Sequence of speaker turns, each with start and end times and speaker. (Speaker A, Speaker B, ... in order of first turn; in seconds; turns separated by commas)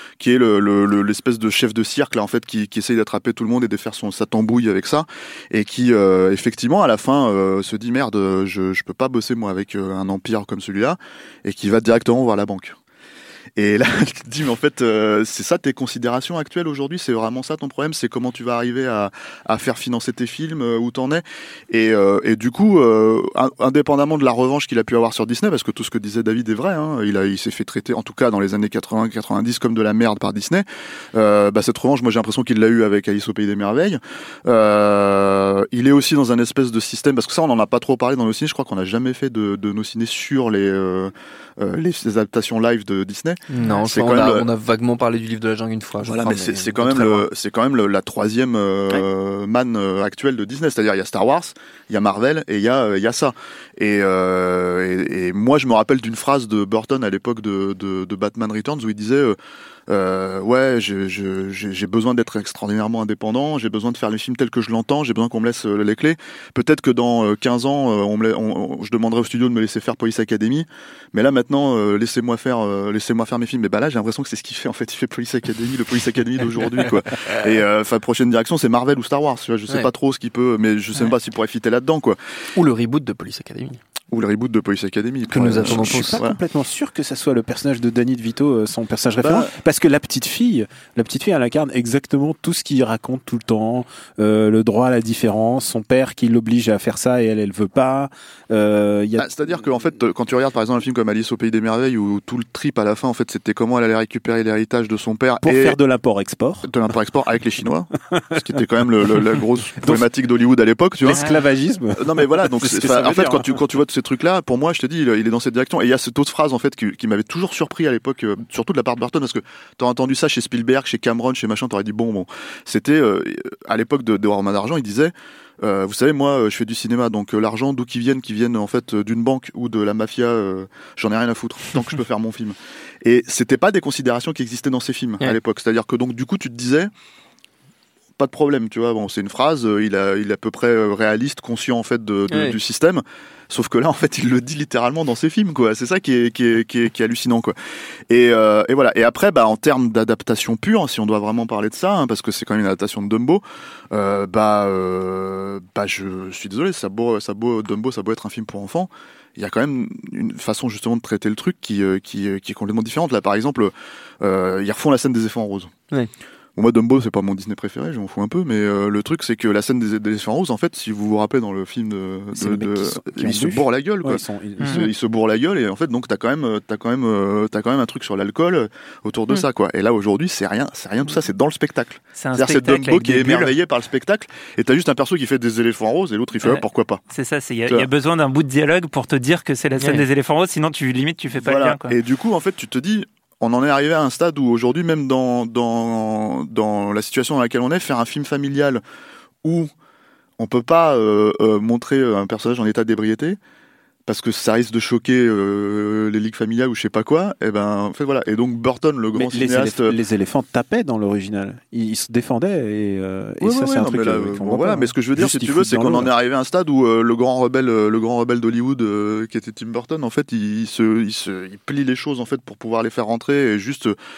Speaker A: 0.2-12.8, Speaker A: 13.6-44.5, Speaker B: 43.5-47.3, Speaker A: 46.0-59.4, Speaker A: 59.9-82.2, Speaker B: 82.5-83.8, Speaker A: 84.1-86.4, Speaker B: 85.3-86.2, Speaker C: 85.6-99.3, Speaker A: 89.2-89.5, Speaker A: 99.2-105.8, Speaker C: 105.4-106.9, Speaker A: 106.6-111.3, Speaker C: 108.3-110.1, Speaker C: 111.0-113.5, Speaker A: 112.0-136.9, Speaker A: 138.2-147.6, Speaker B: 142.3-142.6, Speaker A: 148.1-165.7, Speaker A: 166.6-187.0, Speaker C: 172.3-174.8, Speaker D: 174.6-174.9, Speaker D: 182.2-183.5, Speaker D: 186.4-192.0, Speaker B: 189.8-190.0, Speaker A: 191.3-198.8, Speaker A: 199.4-199.7, Speaker A: 200.4-203.4, Speaker A: 204.1-209.9, Speaker C: 209.1-216.1, Speaker A: 213.4-224.0